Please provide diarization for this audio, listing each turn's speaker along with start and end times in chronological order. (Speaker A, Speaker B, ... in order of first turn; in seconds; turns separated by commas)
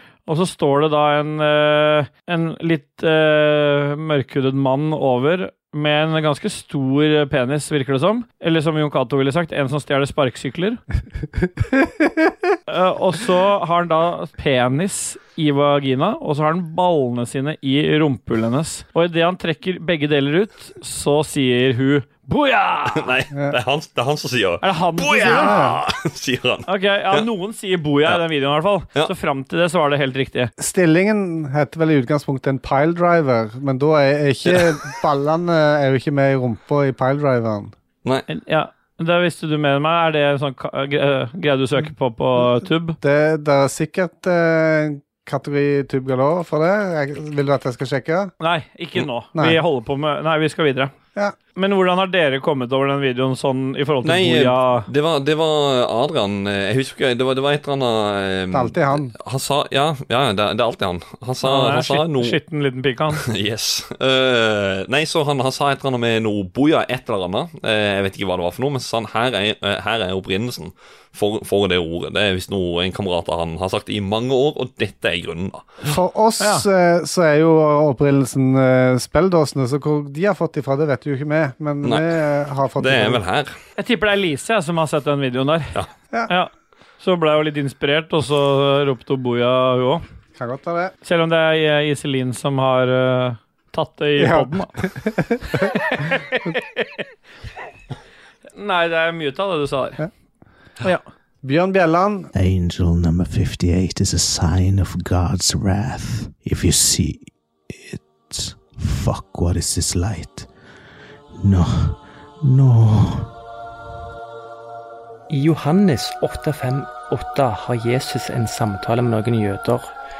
Speaker A: 0.3-10.8, Speaker A: 12.7-23.1, Speaker B: 22.9-27.3, Speaker A: 24.6-25.6, Speaker C: 25.2-25.8, Speaker A: 26.7-30.5, Speaker C: 30.6-37.7, Speaker B: 34.5-34.7, Speaker A: 38.3-43.0, Speaker C: 43.0-48.3, Speaker A: 48.4-50.9, Speaker C: 49.3-49.6, Speaker A: 51.5-54.9, Speaker B: 54.0-62.4, Speaker C: 58.5-59.1, Speaker A: 61.4-63.2, Speaker B: 63.2-75.8, Speaker C: 75.8-83.2, Speaker A: 76.4-76.6, Speaker B: 81.8-82.2, Speaker B: 82.8-83.5, Speaker A: 83.8-85.7, Speaker A: 86.3-90.0, Speaker C: 90.3-90.9, Speaker A: 91.0-94.7, Speaker C: 94.2-95.7, Speaker A: 95.5-97.0, Speaker A: 98.5-100.0, Speaker C: 101.4-102.3, Speaker D: 102.3-110.5, Speaker D: 111.3-113.3, Speaker E: 115.3-119.9